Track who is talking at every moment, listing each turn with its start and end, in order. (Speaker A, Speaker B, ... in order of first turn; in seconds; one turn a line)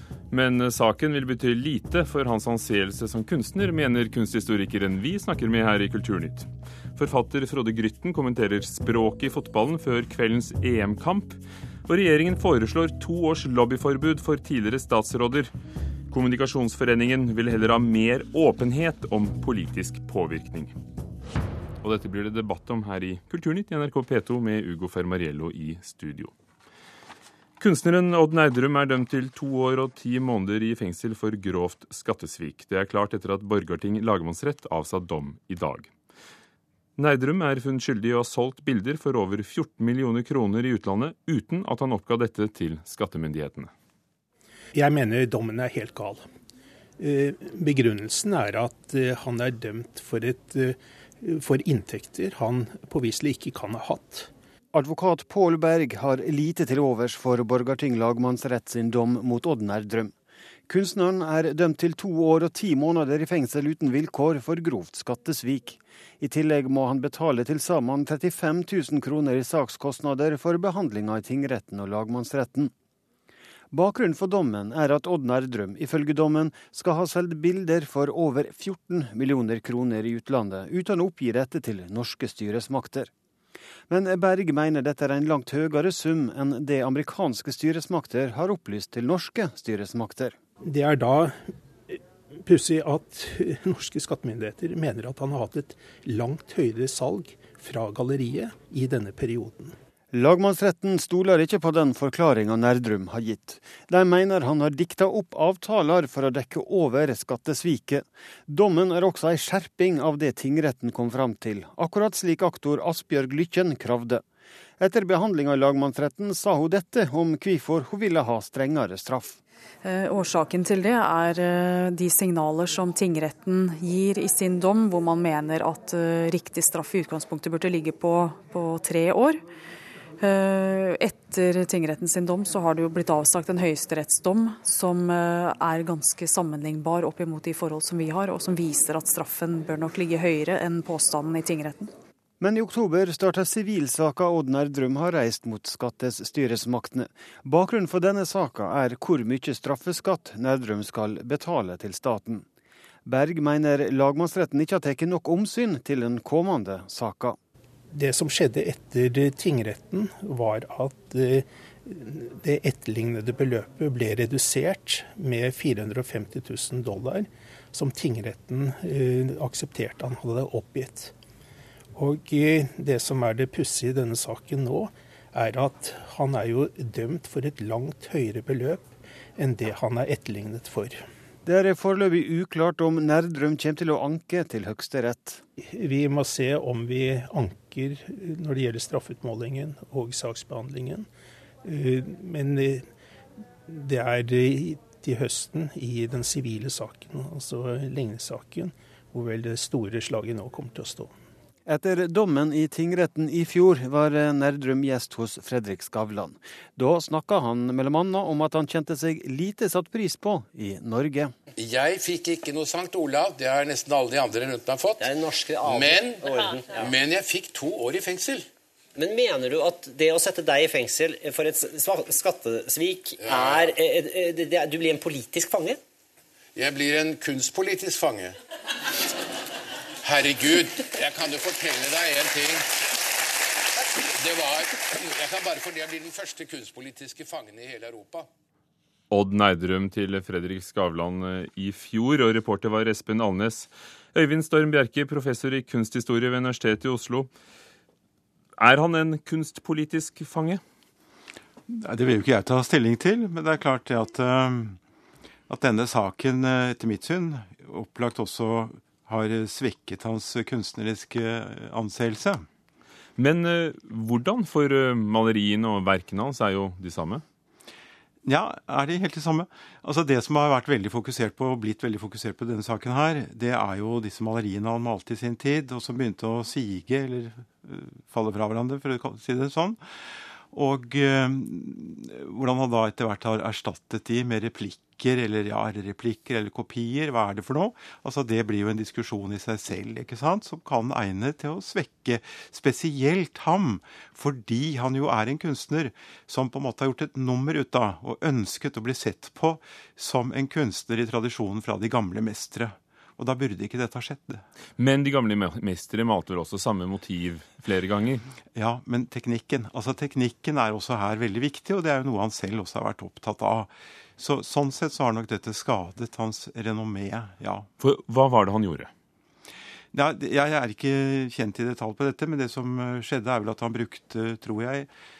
Speaker A: 0.3-15.5
Speaker A: 16.1-20.7
Speaker A: 21.8-26.3
Speaker A: 27.6-35.9
Speaker A: 37.0-43.7
Speaker B: 44.7-46.2
Speaker B: 47.0-54.3
Speaker C: 54.7-60.1
Speaker C: 60.7-72.7
Speaker C: 73.7-83.1
Speaker C: 83.9-90.3
Speaker B: 90.6-91.3
Speaker B: 91.9-99.7
Speaker C: 100.1-114.2
Speaker C: 114.8-119.4
Speaker D: 119.8-129.4
Speaker D: 130.2-141.9
Speaker C: 142.4-152.4
Speaker C: 153.0-157.4
Speaker B: 157.9-171.1
Speaker B: 171.9-181.0
Speaker C: 181.4-185.4
Speaker B: 185.7-191.1
Speaker B: 191.6-192.8
Speaker B: 193.7-201.1
Speaker C: 201.7-211.3
Speaker E: 211.6-215.1
Speaker F: 215.0-216.9
Speaker E: 215.6-218.5
Speaker F: 218.9-225.8
Speaker E: 223.2-223.7
Speaker E: 226.5-228.4
Speaker E: 230.0-232.7
Speaker E: 233.8-238.3
Speaker A: 239.1-247.3
Speaker A: 248.6-250.6
Speaker G: 251.7-254.8
Speaker G: 255.5-262.4
Speaker A: 263.2-267.2
Speaker G: 268.2-279.8
Speaker G: 280.5-304.4
Speaker A: 304.8-308.2
Speaker G: 308.5-317.7
Speaker A: 317.8-318.9
Speaker G: 319.9-324.9